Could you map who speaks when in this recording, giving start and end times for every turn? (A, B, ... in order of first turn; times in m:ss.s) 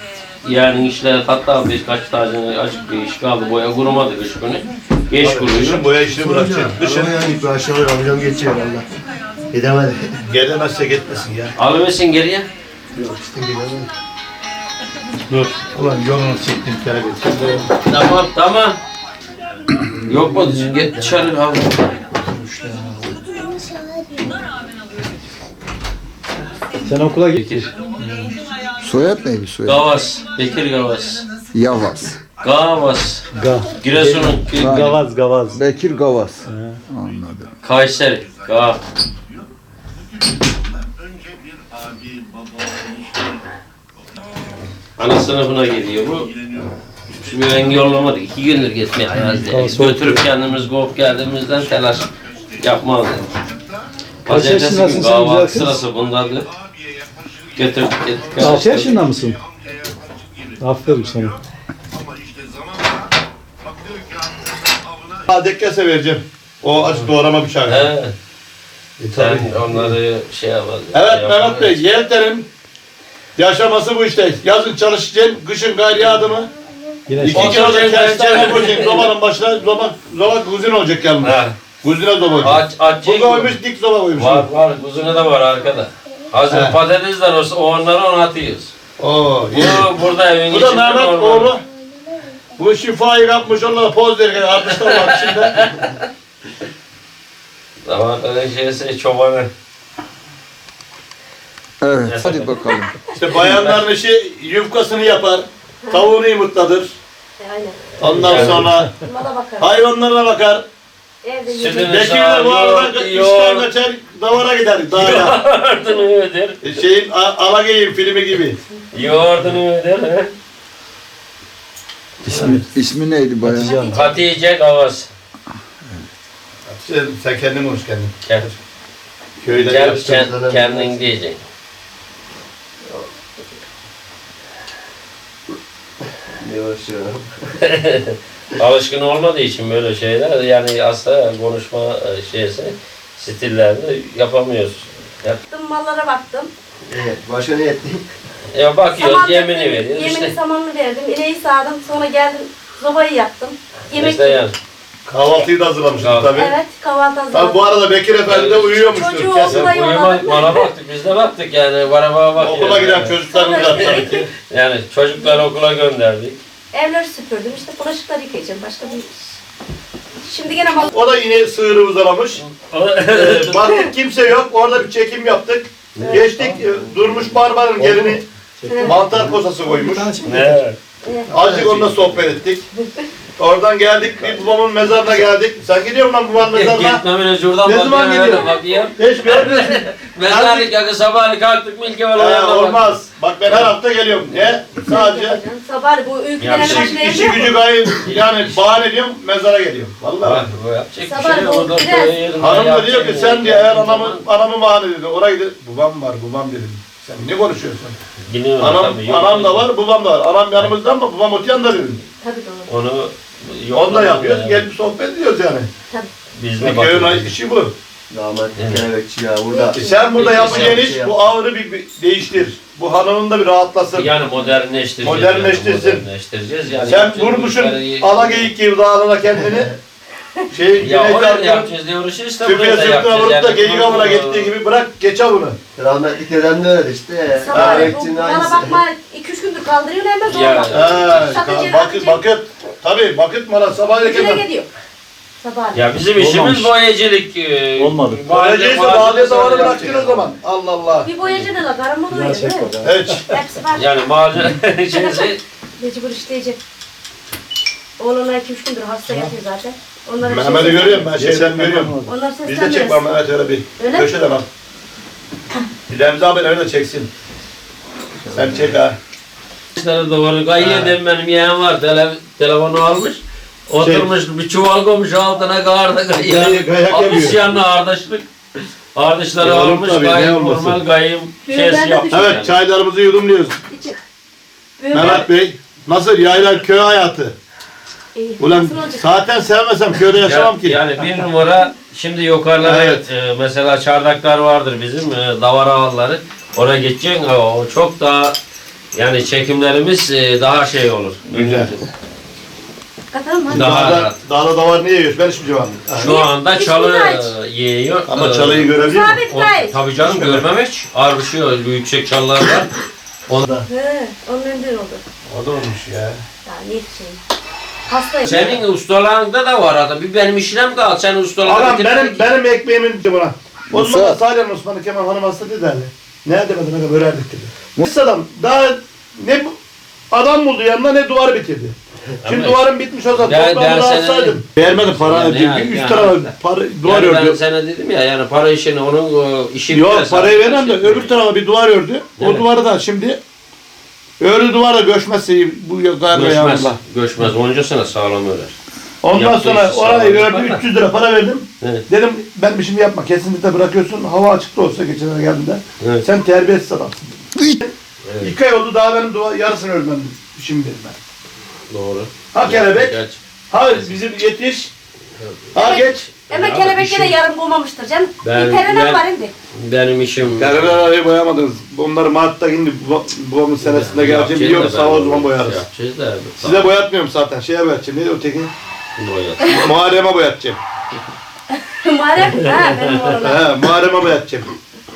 0:00.4-0:05.9 A
0:05.2-0:07.1 B
0:06.2-0:08.9 C
0:09.5-0:10.2 C
0:10.2-0:11.5 B
0:11.6-0:12.5 A
0:12.9-0:13.9 C
0:15.3-0:17.7 B
0:17.8-0:18.8 A
0:20.0-0:22.0 A
0:20.5-0:21.1 C
0:22.1-0:23.2 C
0:26.8-0:27.4 D
0:27.3-0:27.7 A
0:28.0-0:28.4 D
0:28.8-0:29.9 E
0:29.6-0:31.2 A
0:31.5-0:32.2 E
0:32.4-0:34.8 A
0:33.3-0:35.6 D
0:34.5-0:37.5 E
0:36.4-0:36.8 D
0:37.6-0:38.8 A
0:45.0-0:46.3 A
0:47.1-0:53.4 A
0:49.3-0:50.2 D
0:54.2-0:56.5 A
0:54.3-0:55.8 D
0:57.5-0:59.1 A
0:58.4-0:59.4 D
1:00.6-1:01.4 D
1:02.2-1:02.6 B
1:05.0-1:07.9 B
1:06.8-1:07.1 A
1:07.6-1:08.1 A
1:09.0-1:10.0 B
1:09.1-1:11.8 A
1:10.9-1:12.5 B
1:13.4-1:16.5 B
1:17.1-1:17.6 D
1:17.2-1:24.5 B
1:17.2-1:19.1 A
1:21.2-1:21.6 A
1:22.4-1:23.6 A
1:24.2-1:28.7 A
1:26.5-1:26.8 B
1:29.0-1:29.9 B
1:29.5-1:31.6 A
1:30.5-1:31.6 B
1:32.6-1:35.8 B
1:34.6-1:36.0 A
1:37.8-1:39.5 A
1:41.8-1:42.9 E
1:42.0-1:42.6 A
1:43.1-1:47.0 B
1:43.3-1:43.8 A
1:47.4-1:48.0 F
1:48.0-1:48.9 B
1:48.0-1:48.9 A
1:48.2-1:48.7 C
1:49.0-1:49.7 F
1:49.6-1:50.6 B
1:51.2-1:52.0 F
1:51.5-1:53.7 A
1:51.7-1:55.4 B
1:54.9-1:56.6 A
1:56.6-1:58.6 B
1:58.9-2:00.3 A
2:02.2-2:02.6 A
2:02.2-2:02.7 D
2:02.4-2:03.8 E
2:03.4-2:04.0 D
2:03.5-2:04.2 F
2:03.9-2:05.1 A
2:06.7-2:08.6 B
2:09.4-2:09.7 B
2:09.5-2:11.1 C
2:09.6-2:11.4 A
2:16.4-2:17.4 C
2:17.6-2:25.4 A
2:25.5-2:26.5 F
2:26.8-2:28.1 C
2:28.5-2:30.4 A
2:29.0-2:34.4 F
2:33.9-2:34.6 A
2:35.0-2:36.5 B
2:36.0-2:36.3 A
2:36.3-2:37.6 F
2:37.3-2:39.7 B
2:38.3-2:46.4 A
2:38.9-2:40.7 F
2:42.4-2:44.1 B
2:43.2-2:44.3 F
2:45.2-2:45.4 F
2:46.7-2:49.2 F
2:50.2-2:50.9 F
2:50.9-2:52.4 B
2:52.4-2:53.6 A
2:53.1-2:58.2 B
2:56.0-2:56.2 A
2:56.3-2:56.6 D
2:57.8-2:58.2 A
2:58.6-3:00.6 D
2:58.6-2:59.0 F
2:58.8-3:00.1 B
3:00.2-3:00.8 A
3:01.0-3:01.4 F
3:01.3-3:02.6 B
3:01.4-3:01.8 C
3:01.4-3:02.3 A
3:02.8-3:03.0 F
3:03.4-3:07.0 B
3:06.4-3:13.7 A
3:07.6-3:10.7 B
3:12.1-3:15.4 B
3:14.8-3:17.6 F
3:16.4-3:17.0 A
3:16.6-3:20.5 B
3:17.9-3:18.7 A
3:20.2-3:24.2 A
3:21.0-3:22.2 F
3:22.4-3:28.0 B
3:28.3-3:29.7 A
3:28.6-3:32.0 B
3:32.2-3:32.7 F
3:32.7-3:34.7 A
3:33.7-3:35.7 B
3:36.4-3:37.3 A
3:36.6-3:37.7 B
3:38.1-3:41.2 C
3:38.5-3:38.9 A
3:39.5-3:40.0 F
3:39.7-3:44.1 B
3:40.1-3:40.8 A
3:43.9-3:48.5 A
3:45.0-3:46.0 B
3:46.8-3:49.7 B
3:49.4-3:49.7 C
3:50.5-3:51.7 B
3:50.8-3:54.5 A
3:52.4-3:55.6 B
3:55.8-3:58.8 C
3:57.3-4:02.2 F
3:57.5-3:57.9 B
4:00.2-4:01.5 A
4:00.7-4:04.4 B
4:04.0-4:04.7 F
4:05.4-4:05.8 F
4:05.7-4:10.3 A
4:06.2-4:06.7 D
4:07.8-4:08.2 D
4:08.2-4:11.1 B
4:11.0-4:12.7 F
4:12.1-4:13.2 D
4:12.8-4:13.2 B
4:13.3-4:13.9 F
4:13.7-4:15.4 A
4:14.9-4:16.6 F
4:18.0-4:21.1 F
4:19.0-4:19.3 D
4:20.2-4:24.5 B
4:21.1-4:22.2 D
4:22.0-4:23.0 F
4:23.8-4:24.1 F
4:25.9-4:27.1 B
4:28.2-4:28.8 C
4:28.3-4:29.0 B
4:29.8-4:42.5 A
4:30.6-4:31.0 B
4:33.7-4:34.1 B
4:36.2-4:37.5 B
4:39.4-4:40.8 B
4:41.4-4:42.4 F
4:42.1-4:43.6 B
4:43.7-4:44.0 F
4:44.8-4:45.2 F
4:44.9-4:47.3 B
4:44.9-4:45.2 A
4:48.1-4:49.1 F
4:48.4-4:50.8 B
4:50.2-4:58.4 A
4:52.6-4:53.1 B
4:58.9-5:01.8 A
5:01.3-5:01.7 B
5:03.1-5:03.8 F
5:03.5-5:04.2 A
5:03.5-5:06.1 B
5:06.0-5:12.7 A
5:06.0-5:07.3 F
5:08.1-5:09.2 B
5:08.8-5:09.8 F
5:10.0-5:10.5 B
5:13.3-5:13.6 B
5:13.6-5:15.0 F
5:15.3-5:16.2 B
5:16.4-5:17.2 F
5:17.9-5:18.5 F
5:18.2-5:22.2 A
5:21.4-5:29.5 B
5:23.7-5:24.2 E
5:30.1-5:37.4 B
5:32.2-5:36.3 A
5:36.8-5:41.1 A
5:39.7-5:43.2 B
5:42.2-5:42.4 A
5:44.2-5:46.8 B
5:46.1-5:48.5 A
5:49.0-6:01.0 B
5:49.1-5:50.6 A
5:55.8-5:56.0 A
5:58.0-5:58.3 A
6:01.7-6:03.9 A
6:02.3-6:03.0 B
6:03.5-6:04.7 B
6:05.5-6:06.1 B
6:05.6-6:09.3 F
6:06.3-6:07.1 A
6:08.2-6:10.8 A
6:10.2-6:15.6 B
6:13.6-6:16.7 A
6:16.4-6:18.5 B
6:19.0-6:19.7 A
6:19.5-6:20.6 B
6:21.8-6:23.4 F
6:23.1-6:24.5 B